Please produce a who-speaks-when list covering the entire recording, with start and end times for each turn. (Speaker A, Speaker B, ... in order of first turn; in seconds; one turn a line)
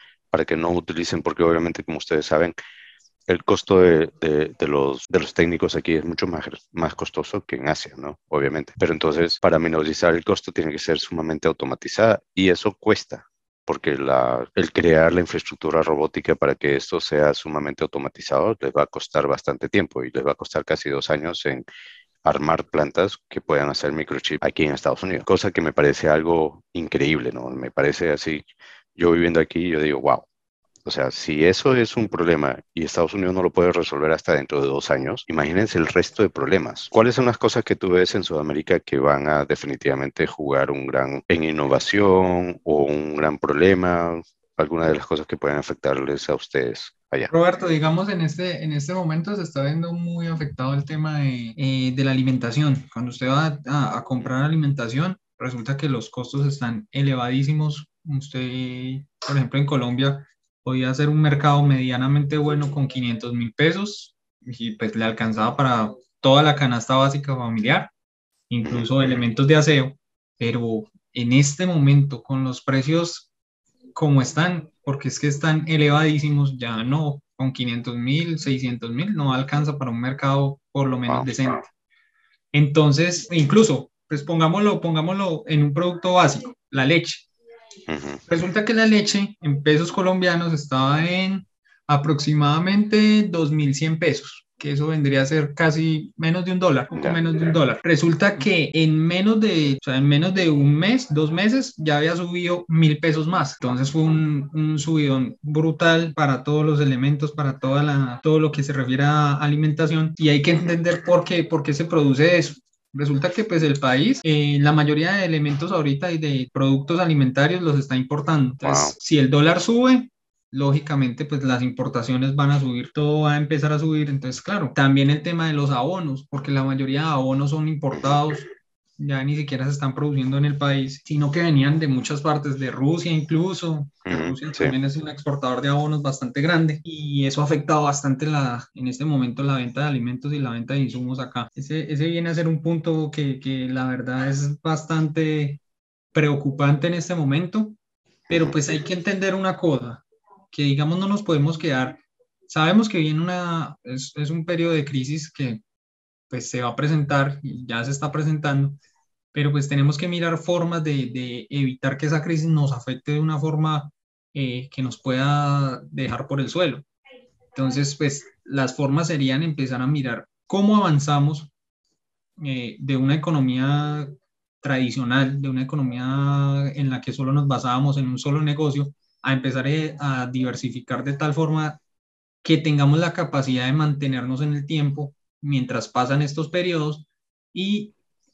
Speaker A: 0.3-2.5
Speaker A: 3.3-21.7
Speaker A: 22.2-30.3
Speaker A: 30.9-47.3
Speaker B: 47.3-67.9
Speaker B: 68.5-73.3
Speaker B: 74.0-81.7
Speaker B: 82.5-87.3
Speaker A: 87.9-88.2
Speaker B: 88.3-128.5
Speaker A: 96.9-97.2
Speaker A: 118.6-119.0
Speaker B: 129.0-145.6
Speaker A: 134.1-134.8
Speaker B: 146.1-147.8
Speaker A: 148.3-148.6
Speaker B: 148.3-155.6
Speaker B: 156.3-158.8
Speaker B: 159.3-166.8
Speaker B: 167.5-171.5
Speaker B: 172.4-174.1
Speaker B: 174.6-181.8
Speaker B: 182.4-187.9